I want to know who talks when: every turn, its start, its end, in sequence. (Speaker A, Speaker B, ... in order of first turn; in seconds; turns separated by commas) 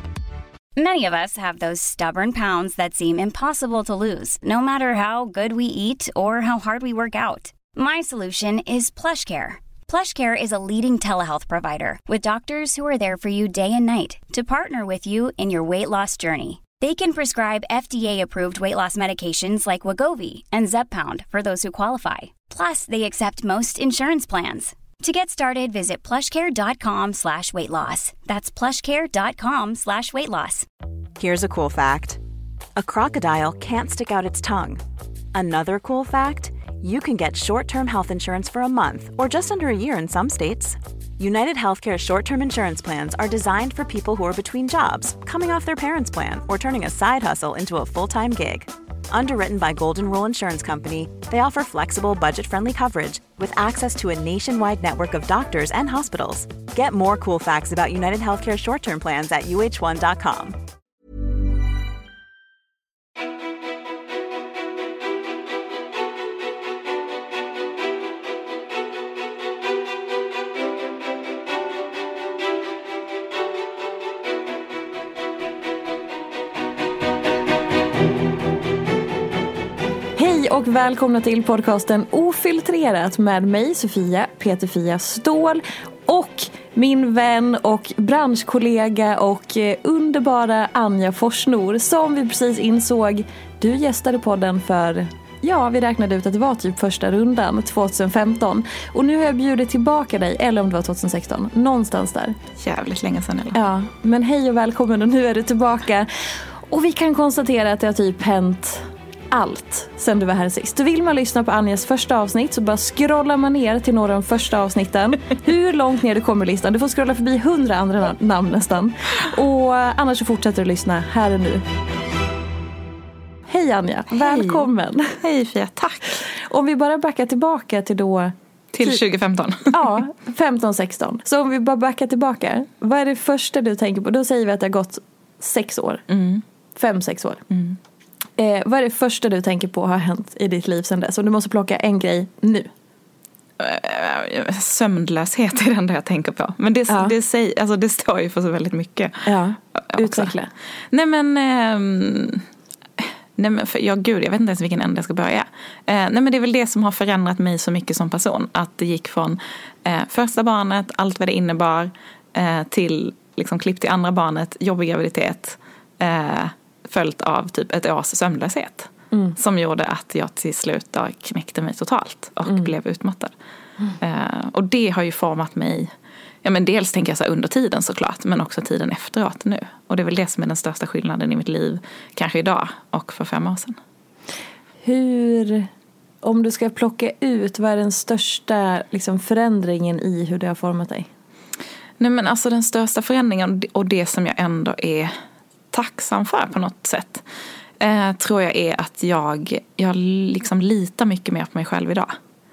Speaker A: 0.8-30.6, Speaker B: 31.2-32.2, Speaker B: 32.8-34.8, Speaker B: 35.3-60.6, Speaker C: 80.2-102.3, Speaker D: 102.6-103.6, Speaker C: 103.5-121.7, Speaker C: 123.5-125.2, Speaker D: 124.1-124.7, Speaker D: 125.2-126.2, Speaker C: 126.2-129.0, Speaker D: 128.7-129.9, Speaker C: 129.7-136.0, Speaker D: 136.1-136.4, Speaker C: 136.7-137.4, Speaker D: 137.5-137.8, Speaker C: 138.4-142.7, Speaker D: 143.6-150.3, Speaker C: 146.9-147.1, Speaker C: 149.2-150.5, Speaker D: 150.9-152.5, Speaker D: 153.0-173.3, Speaker C: 169.1-169.4, Speaker C: 172.4-172.7, Speaker D: 174.0-175.9, Speaker D: 176.4-183.8, Speaker C: 184.8-185.7, Speaker C: 186.2-191.1, Speaker D: 192.0-195.1, Speaker D: 195.7-197.2, Speaker D: 197.8-202.2